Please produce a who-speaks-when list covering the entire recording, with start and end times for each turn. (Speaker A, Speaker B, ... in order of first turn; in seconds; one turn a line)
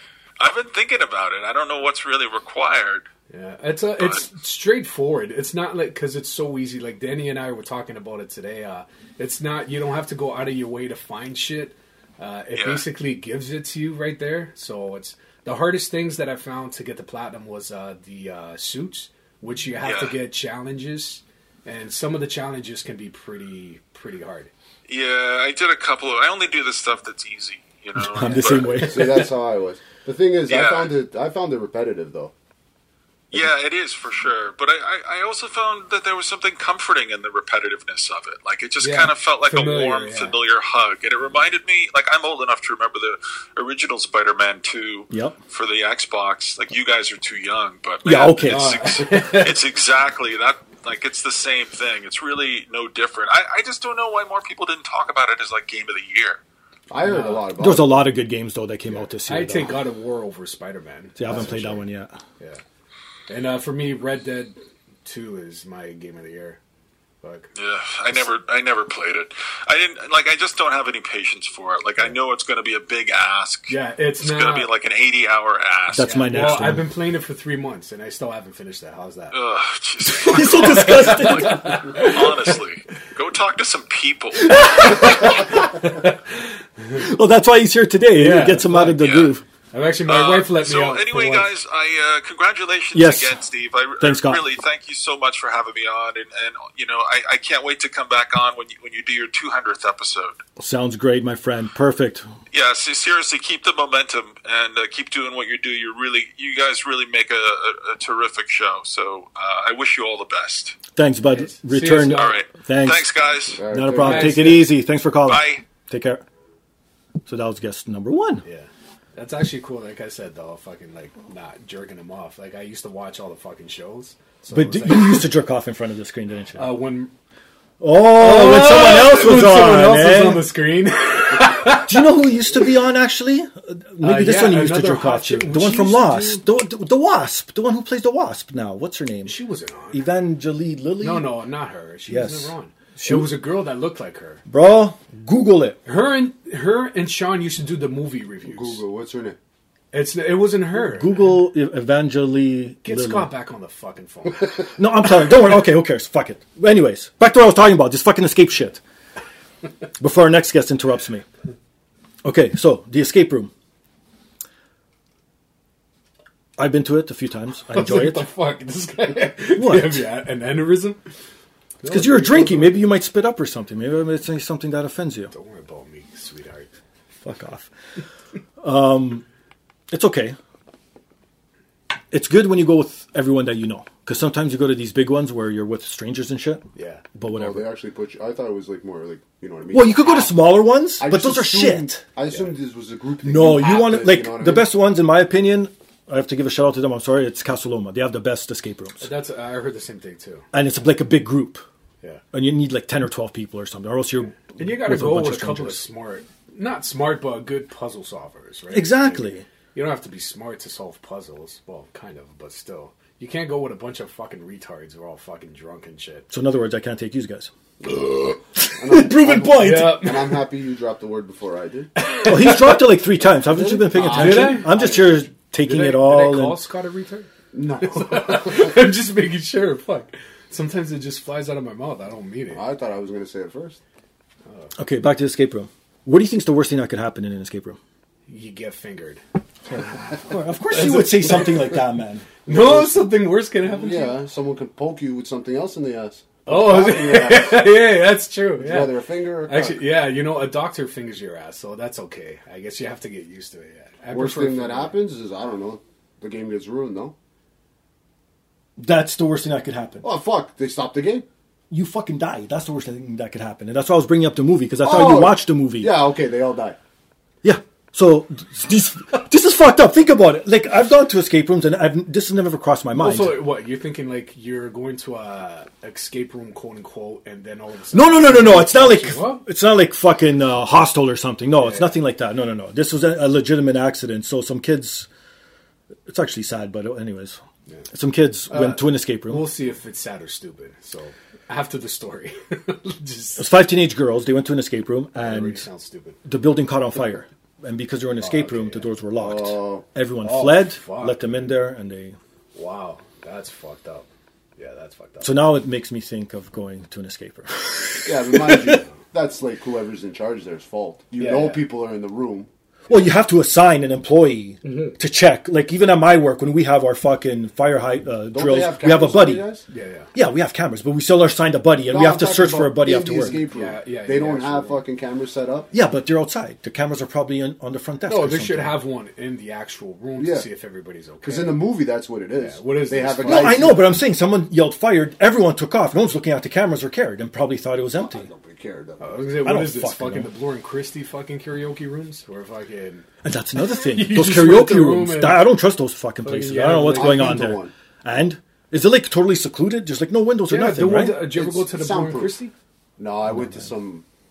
Speaker A: 0.4-3.0
Speaker B: 3.3-24.5
Speaker A: 4.0-4.2
Speaker A: 12.5-12.8
Speaker A: 19.8-20.2
Speaker A: 24.9-29.0
Speaker C: 28.0-29.2
Speaker B: 28.2-28.8
Speaker D: 28.9-32.3
Speaker A: 30.5-30.9
Speaker A: 33.3-56.4
Speaker B: 38.8-40.4
Speaker C: 45.1-45.4
Speaker C: 48.0-48.9
Speaker B: 48.4-49.6
Speaker D: 56.9-58.0
Speaker B: 57.0-57.5
Speaker C: 57.6-59.8
Speaker B: 58.9-61.8
Speaker C: 61.2-62.1
Speaker B: 63.3-66.6
Speaker B: 67.2-67.5
Speaker A: 67.5-76.6
Speaker B: 73.7-74.7
Speaker C: 75.9-76.9
Speaker B: 76.0-79.3
Speaker A: 79.3-85.5
Speaker B: 80.2-82.6
Speaker C: 80.2-81.8
Speaker C: 84.5-85.2
Speaker B: 84.7-86.2
Speaker C: 86.9-89.4
Speaker B: 88.1-89.0
Speaker A: 89.0-89.3
Speaker B: 89.7-91.5
Speaker A: 90.0-100.4
Speaker C: 92.9-93.4
Speaker C: 94.0-94.4
Speaker C: 100.6-102.3
Speaker A: 102.5-110.8
Speaker C: 110.9-113.1
Speaker B: 111.3-112.4
Speaker A: 112.1-113.6
Speaker D: 113.5-114.6
Speaker C: 113.7-116.2
Speaker B: 113.9-114.7
Speaker A: 115.3-115.6
Speaker C: 117.2-118.4
Speaker B: 118.4-125.3
Speaker C: 124.5-126.8
Speaker B: 126.5-127.1
Speaker C: 127.8-130.5
Speaker B: 128.1-132.1
Speaker C: 131.8-139.4
Speaker B: 134.0-136.4
Speaker B: 139.2-140.0
Speaker C: 139.9-141.4
Speaker B: 141.0-144.4
Speaker C: 142.1-143.4
Speaker C: 144.5-145.8
Speaker B: 145.8-148.8
Speaker D: 148.4-149.4
Speaker B: 149.9-151.3
Speaker C: 150.7-153.3
Speaker B: 152.8-154.7
Speaker C: 154.8-158.8
Speaker C: 160.0-161.2
Speaker C: 162.2-163.5
Speaker C: 166.6-168.3
Speaker B: 167.7-171.0
Speaker C: 169.6-170.1
Speaker B: 171.8-172.8
Speaker C: 171.8-175.3
Speaker B: 175.3-176.7
Speaker C: 177.2-177.7
Speaker C: 178.6-179.2
Speaker C: 179.9-180.4
Speaker C: 182.1-187.7
Speaker B: 186.8-187.0
Speaker D: 187.3-190.3
Speaker C: 189.7-192.0
Speaker D: 191.0-194.7
Speaker C: 193.2-199.1
Speaker B: 199.0-200.4
Speaker C: 200.5-201.6
Speaker C: 202.3-205.8
Speaker B: 204.3-216.3
Speaker C: 208.7-209.4
Speaker C: 216.3-220.1
Speaker D: 218.7-221.9
Speaker B: 219.5-220.4
Speaker B: 221.9-222.9
Speaker C: 222.2-226.6
Speaker D: 223.5-225.1
Speaker B: 223.9-227.3
Speaker D: 227.5-228.8
Speaker B: 227.8-232.6
Speaker D: 232.5-233.8
Speaker C: 234.8-237.8
Speaker B: 238.3-239.2
Speaker C: 239.7-242.3
Speaker B: 240.7-241.8
Speaker B: 242.4-244.2
Speaker D: 242.5-243.1
Speaker D: 243.7-247.7
Speaker B: 246.4-248.9
Speaker D: 248.6-249.8
Speaker B: 249.4-254.9
Speaker D: 254.1-257.1
Speaker C: 258.8-260.1
Speaker D: 260.0-261.2
Speaker C: 261.7-266.0
Speaker D: 264.8-266.8
Speaker C: 267.4-273.4
Speaker B: 272.9-279.4
Speaker C: 277.9-285.1
Speaker B: 281.6-282.0
Speaker C: 286.1-287.4
Speaker C: 287.9-289.5
Speaker B: 288.5-293.5
Speaker C: 293.4-295.6
Speaker B: 295.1-296.2
Speaker C: 296.2-302.1
Speaker B: 298.2-298.9
Speaker D: 299.2-299.8
Speaker B: 300.2-301.2
Speaker B: 302.5-305.4
Speaker C: 305.2-308.5
Speaker D: 308.0-312.5
Speaker B: 311.2-311.6
Speaker C: 312.9-319.5
Speaker B: 314.6-314.9
Speaker D: 318.3-319.6
Speaker B: 319.7-320.1
Speaker C: 320.1-323.4
Speaker D: 321.9-325.7
Speaker B: 323.3-324.8
Speaker C: 325.7-328.8
Speaker B: 328.1-331.6
Speaker D: 330.2-330.5
Speaker D: 331.2-333.8
Speaker B: 332.4-333.8
Speaker C: 333.2-338.3
Speaker D: 338.0-339.4
Speaker B: 339.0-343.1
Speaker C: 339.4-340.3
Speaker C: 343.2-351.3
Speaker B: 343.6-345.6
Speaker B: 346.2-347.4
Speaker D: 346.9-347.7
Speaker B: 350.5-352.5
Speaker D: 351.2-352.4
Speaker D: 353.0-354.0